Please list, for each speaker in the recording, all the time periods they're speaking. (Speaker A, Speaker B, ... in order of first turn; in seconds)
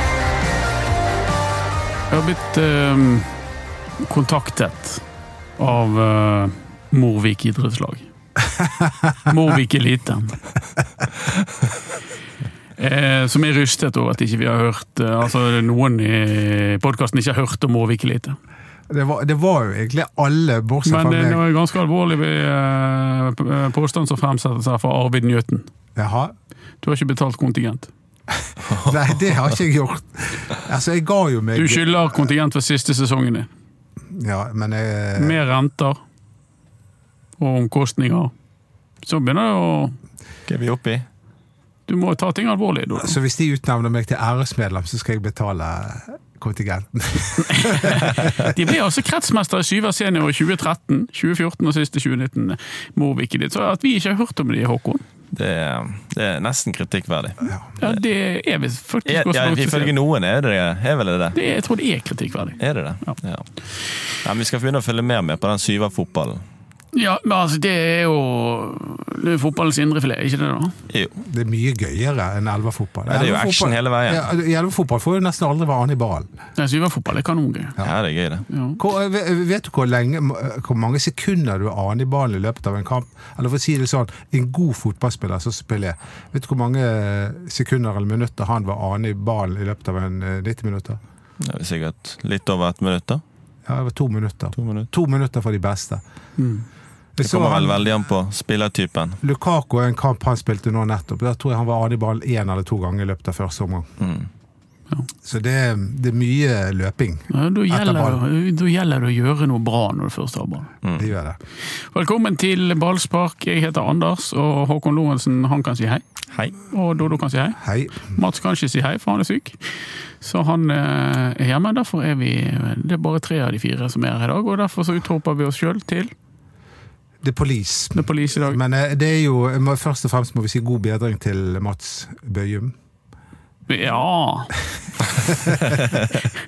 Speaker A: 2.1-3.3, 4.0-5.0, 5.6-8.1, 9.3-10.4, 12.8-18.4, 20.9-25.7, 26.8-27.9, 31.6-33.5, 35.2-36.0, 37.4-38.3, 39.0-40.0, 41.9-43.2, 47.4-55.0, 57.8-59.9, 61.3-63.1, 66.9-70.7, 76.6-77.8, 78.5-78.8, 96.4-96.7, 107.3-110.7, 111.9-116.0, 116.7-119.6, 120.2-126.1, 128.0-128.6, 133.7-134.5
Speaker B: 18.9-21.4, 25.9-26.3, 28.4-32.1, 34.1-35.4, 43.0-48.5, 57.4-57.7, 71.2-76.3, 78.8-91.0, 93.7-96.0, 97.2-97.8, 99.2-103.9, 105.2-108.2, 111.0-111.4, 117.6-118.1, 127.2-132.7, 135.2-135.9
Speaker C: 40.5-41.0, 55.3-57.5, 59.1-61.4, 62.6-63.5, 64.2-66.4, 70.9-71.2, 73.1-74.2, 77.8-78.5, 91.4-93.2, 94.6-94.9, 97.2-99.2, 104.0-104.3, 110.8-111.1, 135.7-136.1